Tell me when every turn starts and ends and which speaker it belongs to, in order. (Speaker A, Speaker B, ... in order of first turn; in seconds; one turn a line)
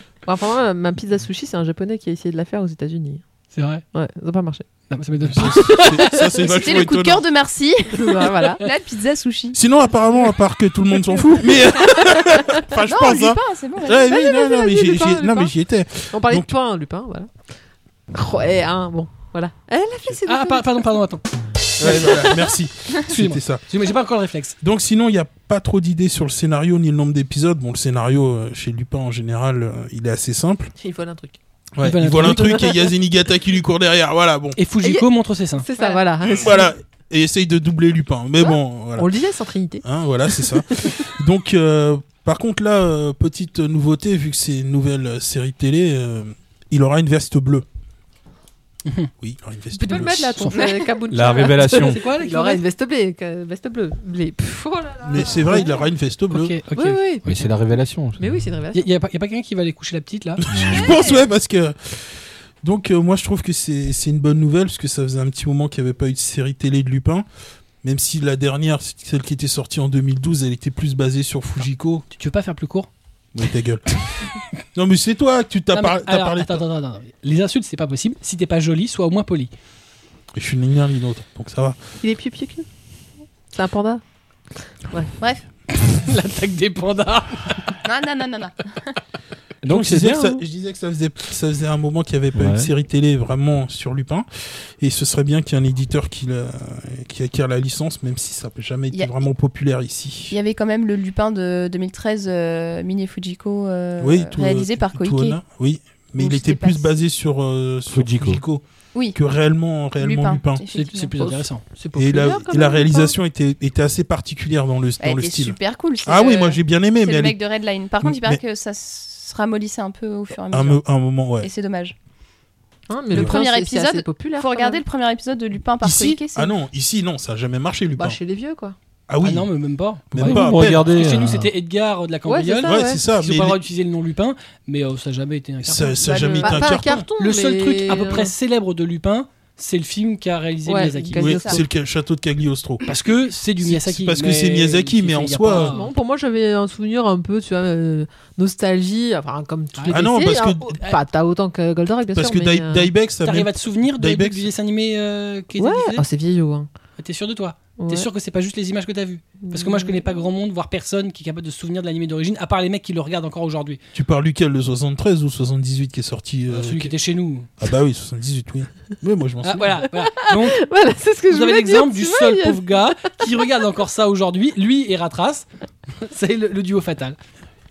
Speaker A: 0.3-3.2
Speaker B: 3.5-3.8
Speaker A: 3.9-4.7
Speaker B: 4.9-6.3
Speaker C: 5.2-7.2
Speaker A: 5.7-6.4
Speaker D: 6.5-9.6
Speaker A: 7.9-8.6
Speaker C: 9.5-16.5
Speaker D: 12.8-14.1
Speaker A: 14.1-15.5
Speaker A: 16.1-17.3
Speaker A: 18.1-20.7
Speaker B: 20.3-21.2
Speaker C: 21.8-23.6
Speaker B: 21.8-22.4
Speaker B: 23.1-24.6
Speaker C: 24.6-30.7
Speaker A: 30.8-31.4
Speaker C: 31.8-34.6
Speaker B: 31.8-32.9
Speaker B: 34.6-35.7
Speaker A: 34.8-36.7
Speaker C: 36.2-39.1
Speaker A: 39.0-40.9
Speaker C: 39.8-47.7
Speaker B: 48.9-49.1
Speaker C: 49.2-50.5
Speaker A: 49.7-55.4
Speaker D: 50.6-50.9
Speaker E: 51.1-52.0
Speaker B: 51.7-52.6
Speaker C: 55.1-56.6
Speaker D: 55.2-55.8
Speaker B: 56.3-57.4
Speaker A: 56.7-57.5
Speaker E: 57.3-58.5
Speaker A: 58.2-58.9
Speaker B: 58.7-60.4
Speaker C: 60.4-67.2
Speaker E: 60.5-61.0
Speaker D: 60.7-61.2
Speaker C: 67.8-72.1
Speaker B: 72.1-72.9
Speaker C: 73.3-76.6
Speaker B: 75.7-79.5
Speaker C: 80.3-81.8
Speaker A: 82.0-82.7
Speaker A: 83.5-84.0
Speaker D: 85.2-85.4
Speaker B: 85.7-87.8
Speaker D: 87.8-88.9
Speaker E: 89.6-90.4
Speaker C: 89.7-94.3
Speaker E: 92.3-92.7
Speaker C: 94.8-100.4
Speaker D: 100.3-105.4
Speaker C: 104.0-110.6
Speaker D: 106.2-106.9
Speaker E: 107.9-108.4
Speaker D: 110.0-111.2
Speaker B: 110.7-111.6
Speaker A: 111.1-113.1
Speaker C: 112.0-117.4
Speaker D: 115.0-120.8
Speaker C: 118.0-118.4
Speaker C: 120.5-121.5
Speaker D: 121.4-122.0
Speaker A: 122.9-124.8
Speaker D: 123.1-126.5
Speaker C: 125.8-128.2
Speaker A: 128.0-128.8
Speaker C: 129.1-129.5
Speaker B: 129.2-136.0
Speaker C: 130.1-131.3
Speaker E: 130.2-131.5
Speaker A: 132.3-133.0
Speaker C: 132.7-133.6
Speaker C: 135.6-137.1
Speaker D: 136.0-136.7
Speaker A: 136.4-138.3
Speaker B: 137.2-141.4
Speaker A: 140.7-141.7
Speaker C: 141.2-142.9
Speaker D: 141.3-141.6
Speaker B: 142.8-145.9
Speaker C: 143.6-145.7
Speaker A: 145.5-152.9
Speaker C: 149.9-150.8
Speaker C: 152.1-154.5
Speaker B: 153.2-156.0
Speaker A: 155.6-156.7
Speaker B: 157.0-163.8
Speaker A: 157.8-158.1
Speaker A: 159.4-160.0
Speaker C: 163.9-166.9
Speaker B: 166.5-167.5
Speaker C: 167.6-169.8
Speaker B: 169.4-170.6
Speaker A: 170.2-173.1
Speaker B: 171.3-175.5
Speaker B: 176.0-177.2